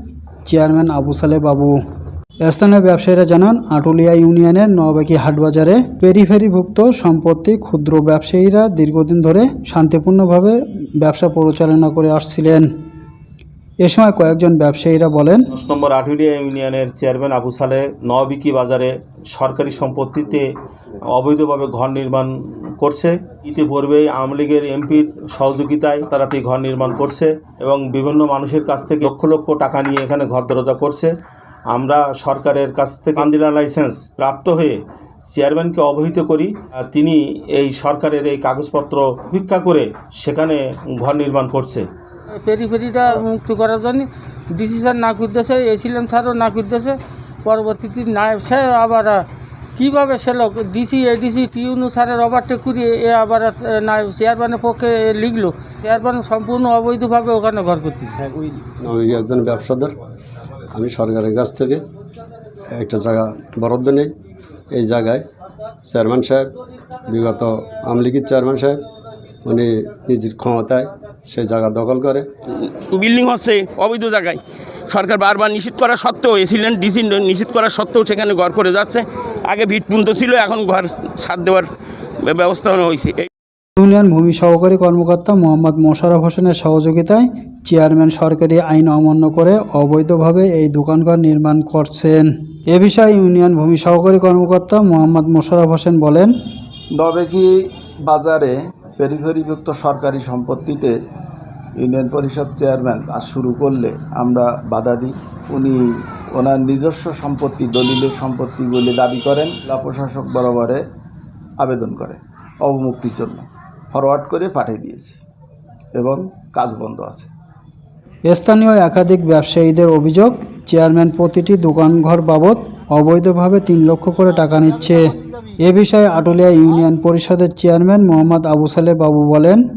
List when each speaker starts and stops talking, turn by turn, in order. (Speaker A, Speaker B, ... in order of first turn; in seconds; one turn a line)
Speaker A: 0.5-1.8
Speaker A: 2.4-12.7
Speaker A: 13.8-15.5
Speaker B: 15.5-20.5
Speaker B: 21.1-31.1
Speaker B: 31.7-34.8
Speaker B: 35.3-41.9
Speaker C: 42.3-58.2
Speaker D: 58.3-59.9
Speaker D: 60.7-61.8
Speaker D: 62.7-64.1
Speaker D: 64.7-65.2
Speaker D: 65.8-66.5
Speaker D: 67.1-68.8
Speaker D: 69.5-72.3
Speaker E: 72.5-81.7
Speaker E: 82.2-83.3
Speaker A: 83.8-96.3
Speaker F: 97.0-97.5
Speaker F: 98.0-101.0
Speaker F: 101.8-105.8
Speaker F: 106.3-110.8
Speaker F: 111.6-115.2
Speaker F: 116.0-117.3
Speaker A: 118.2-129.7